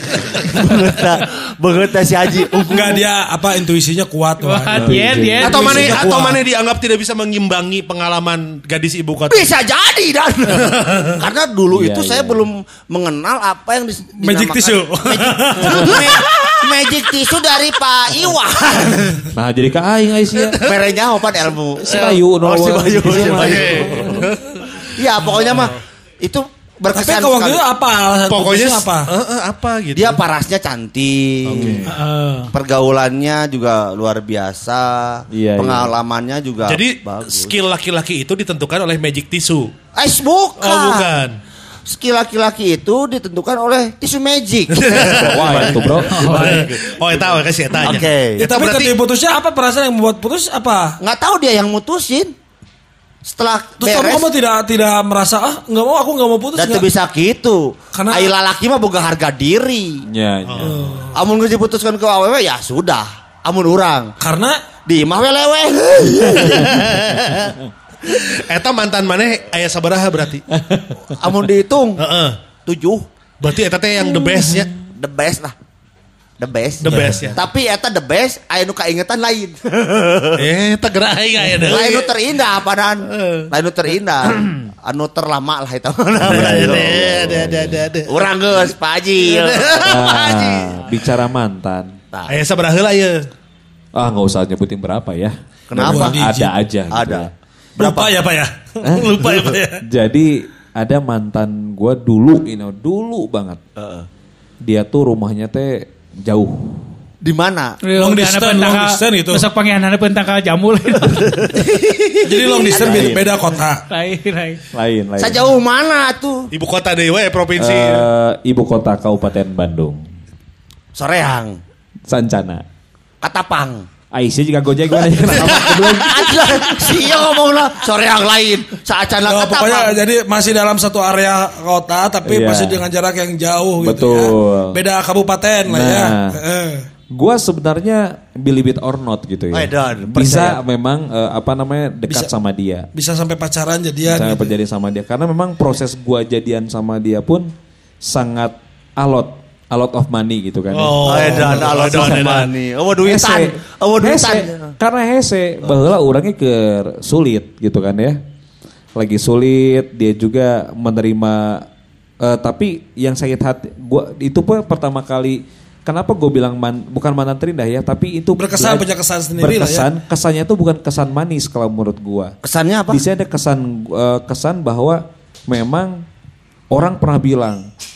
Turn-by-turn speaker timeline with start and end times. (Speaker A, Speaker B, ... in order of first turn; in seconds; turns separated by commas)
Speaker A: 0.4-3.0, Speaker B: 2.5-6.4, Speaker C: 4.4-5.8, Speaker D: 4.7-5.7, Speaker E: 5.4-9.5, Speaker A: 5.4-6.0, Speaker A: 9.3-19.3, Speaker E: 10.6-11.1, Speaker D: 11.7-12.5, Speaker B: 14.2-16.3, Speaker D: 19.3-20.6, Speaker E: 20.4-20.8, Speaker A: 20.6-24.3, Speaker D: 21.8-24.3, Speaker E: 23.2-24.9, Speaker A: 25.0-27.6, Speaker B: 26.9-29.1, Speaker E: 28.3-30.2, Speaker A: 29.9-31.9, Speaker E: 31.4-31.8, Speaker D: 31.5-31.9, Speaker C: 31.9-32.5, Speaker A: 32.5-37.5, Speaker D: 35.3-35.9, Speaker E: 36.6-39.7, Speaker A: 39.9-41.1, Speaker E: 40.6-41.4, Speaker A: 41.9-46.9, Speaker E: 44.7-49.0, Speaker D: 45.0-46.6, Speaker C: 46.1-46.6, Speaker A: 47.8-48.5, Speaker B: 48.4-51.0, Speaker A: 51.0-52.3, Speaker A: 53.2-54.3, Speaker B: 53.8-56.9, Speaker A: 56.5-60.0, Speaker B: 57.9-58.3, Speaker D: 60.1-61.0, Speaker E: 60.5-61.0, Speaker B: 60.6-61.1, Speaker A: 61.1-64.1, Speaker B: 64.2-64.6, Speaker A: 64.8-67.0, Speaker E: 66.4-70.5, Speaker D: 70.6-71.0, Speaker A: 71.1-72.0, Speaker E: 72.0-72.4, Speaker A: 72.6-73.0, Speaker E: 73.4-74.7, Speaker A: 75.0-75.5, Speaker A: 76.4-80.4, Speaker E: 76.8-77.4, Speaker D: 76.8-77.3, Speaker E: 80.3-82.1, Speaker A: 81.6-87.0, Speaker E: 83.1-83.5, Speaker E: 86.2-88.6, Speaker D: 86.2-87.9, Speaker A: 88.1-90.2, Speaker E: 89.2-90.7, Speaker D: 89.8-91.9, Speaker E: 92.3-93.2, Speaker D: 93.9-97.3, Speaker A: 95.7-96.2, Speaker B: 95.8-96.5, Speaker A: 96.9-98.2, Speaker B: 97.8-99.8, Speaker D: 98.8-99.3, Speaker D: 99.8-103.6, Speaker A: 103.8-104.0, Speaker D: 104.6-106.8, Speaker A: 107.2-107.8, Speaker C: 107.8-111.5, Speaker B: 108.0-109.5, Speaker A: 111.4-113.1, Speaker B: 112.2-113.8, Speaker D: 112.8-113.3, Speaker C: 113.9-114.6, Speaker D: 114.7-115.5, Speaker A: 115.2-116.5, Speaker E: 116.5-118.1, Speaker D: 117.6-120.0, Speaker A: 120.9-121.6, Speaker D: 122.1-122.6, Speaker A: 123.2-123.9, Speaker D: 124.1-126.4, Speaker E: 125.4-126.5, Speaker A: 125.5-130.0, Speaker B: 129.2-136.8, Speaker D: 132.2-132.8, Speaker D: 133.8-134.8, Speaker D: 135.7-136.3, Speaker D: 137.1-142.9, Speaker A: 139.5-140.6, Speaker B: 142.9-144.5, Speaker D: 144.1-147.5, Speaker D: 148.0-152.4, Speaker E: 150.7-152.5, Speaker A: 151.0-154.7, Speaker D: 153.0-158.2, Speaker D: 158.9-161.7, Speaker D: 162.2-172.3, Speaker B: 168.4-169.9, Speaker A: 172.4-173.0, Speaker D: 172.9-176.0, Speaker D: 176.7-177.7